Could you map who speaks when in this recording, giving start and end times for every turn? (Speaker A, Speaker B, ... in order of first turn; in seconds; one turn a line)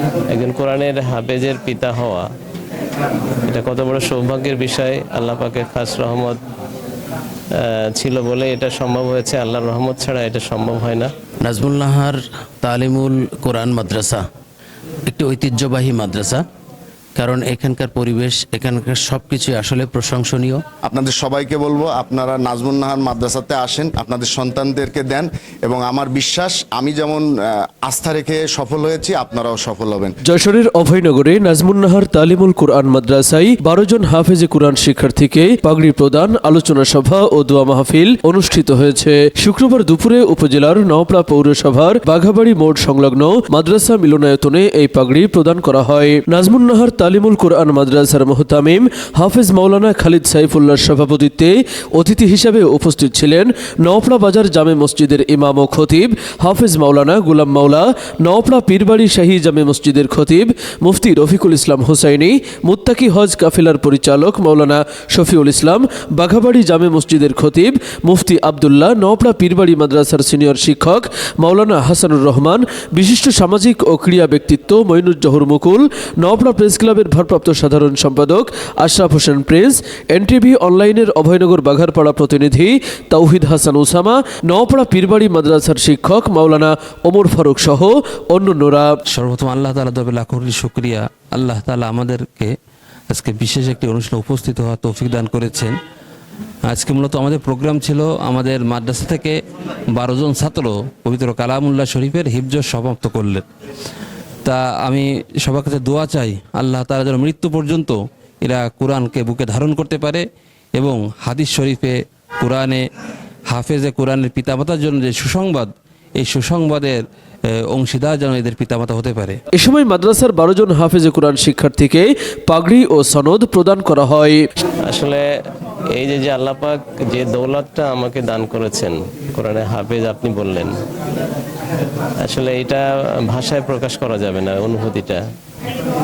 Speaker A: 0.3-2.3
Speaker A: 3.5-6.4
Speaker A: 7.5-11.1
Speaker B: 11.4-14.2
Speaker B: 15.1-16.4
Speaker B: 17.1-20.6
Speaker C: 20.8-27.3
Speaker C: 27.8-30.1
Speaker D: 30.3-89.0
Speaker E: 89.1-92.5
Speaker E: 93.1-95.8
Speaker E: 96.7-99.4
Speaker E: 99.9-103.4
Speaker E: 104.4-112.8
Speaker E: 113.5-117.0
Speaker E: 117.7-119.4
Speaker D: 119.5-124.4
Speaker A: 124.8-125.3
Speaker A: 125.9-130.8
Speaker A: 132.2-135.3